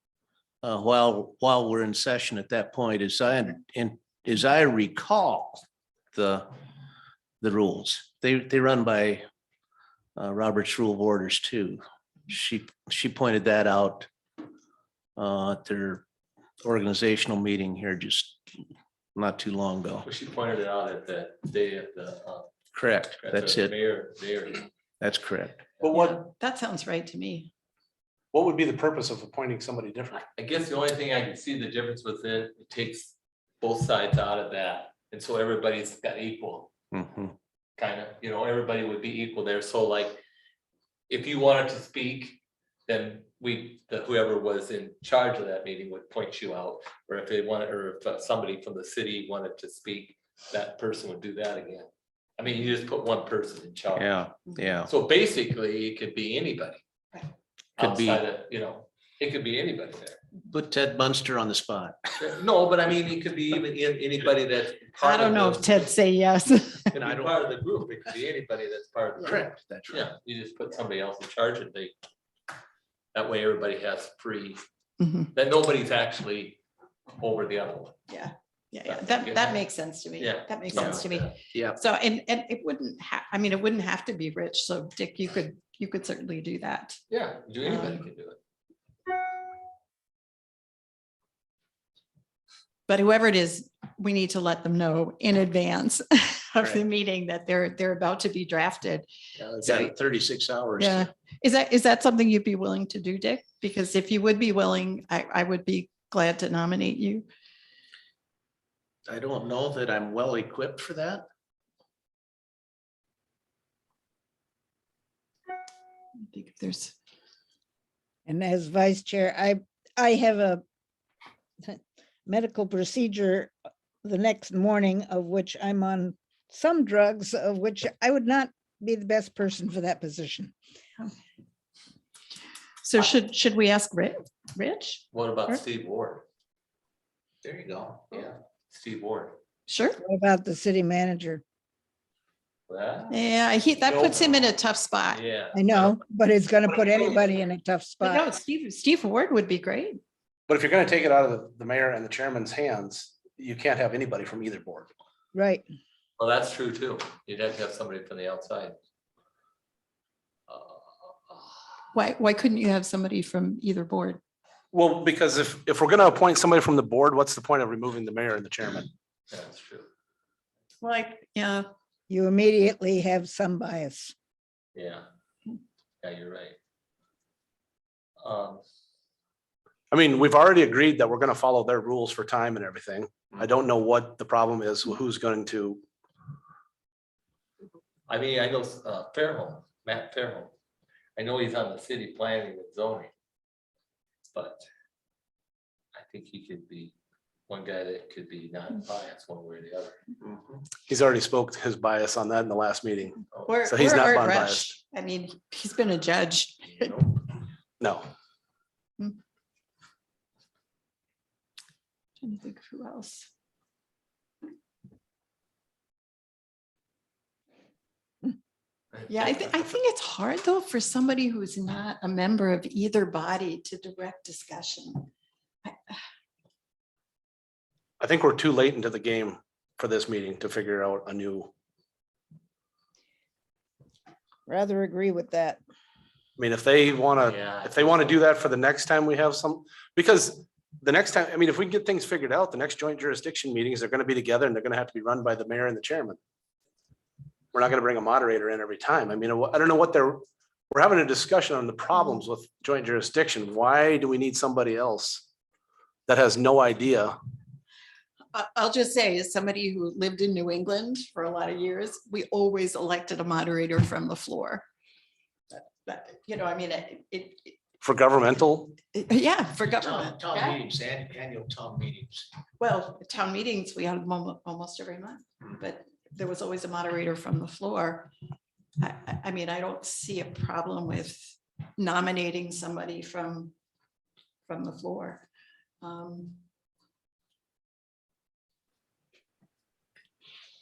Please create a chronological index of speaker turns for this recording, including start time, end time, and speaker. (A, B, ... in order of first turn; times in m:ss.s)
0:00.6-0:06.5 A
0:07.4-0:09.2 A
0:10.2-0:14.1 A
0:15.2-0:16.0 A
0:16.6-0:18.4 A
0:19.1-0:20.1 A
0:20.0-0:22.5 B
0:22.7-0:23.7 A
0:23.2-0:24.7 B
0:25.0-0:25.7 A
0:25.8-0:26.2 C
0:25.9-0:27.5 D
0:28.3-0:30.2 C
0:30.3-0:36.7 B
0:36.9-0:37.3 A
0:37.8-0:40.2 B
0:41.1-0:54.1 B
0:54.0-0:54.9 A
0:54.8-0:56.8 B
0:57.8-1:00.2 B
0:57.8-0:58.2 A
1:00.5-1:02.2 A
1:02.2-1:05.8 B
1:05.0-1:07.0 D
1:06.9-1:07.3 A
1:06.9-1:11.9 B
1:09.2-1:10.1 A
1:13.1-1:14.6 B
1:15.0-1:15.3 D
1:15.3-1:16.6 B
1:17.2-1:18.0 B
1:18.1-1:27.0 D
1:18.8-1:19.6 B
1:20.2-1:21.3 B
1:20.7-1:21.0 A
1:21.5-1:21.8 A
1:27.1-1:28.4 B
1:27.6-1:28.0 D
1:32.9-1:39.1 D
1:39.4-1:41.1 A
1:39.6-1:39.9 D
1:40.8-1:47.3 D
1:49.1-1:51.2 A
1:56.3-1:57.0 D
1:58.3-2:00.6 E
2:01.6-2:03.5 E
2:04.0-2:10.5 E
2:12.8-2:15.6 D
2:15.1-2:16.2 B
2:17.4-2:18.2 A
2:18.1-2:19.4 B
2:19.7-2:20.0 D
2:20.0-2:21.4 E
2:22.7-2:23.2 B
2:23.1-2:25.2 D
2:23.8-2:24.5 B
2:25.1-2:26.0 B
2:25.5-2:28.2 E
2:28.0-2:30.0 D
2:30.5-2:34.9 C
2:35.3-2:35.6 E
2:36.2-2:38.8 B
2:40.5-2:41.6 B
2:41.9-2:44.2 D
2:44.7-2:48.9 C
2:49.3-2:49.9 B
2:50.8-2:51.6 D
2:52.1-2:54.1 E
2:54.7-2:55.0 B
2:56.0-2:56.6 B
2:58.2-2:58.6 B
2:59.9-3:05.8 C
3:08.1-3:10.5 B
3:11.2-3:13.1 B
3:14.3-3:14.6 B
3:15.9-3:16.9 B
3:17.5-3:20.0 B
3:20.9-3:24.7 C
3:23.4-3:27.2 D
3:27.8-3:28.1 C
3:32.2-3:33.3 D
3:38.9-3:39.5 B
3:39.1-3:45.1 D
3:45.6-3:46.0 D
3:48.0-3:51.5 C
3:54.5-3:55.6 E
3:56.4-4:06.2 C
3:57.2-3:58.2 B
4:07.5-4:15.2 C
4:16.1-4:17.2 C
4:18.3-4:24.6 D
4:25.5-4:27.6 D
4:27.8-4:28.8 C
4:28.9-4:30.6 D
4:29.6-4:32.3 A
4:32.6-4:38.1 D
4:38.8-4:43.5 D
4:44.5-4:45.3 D
4:45.8-4:46.4 D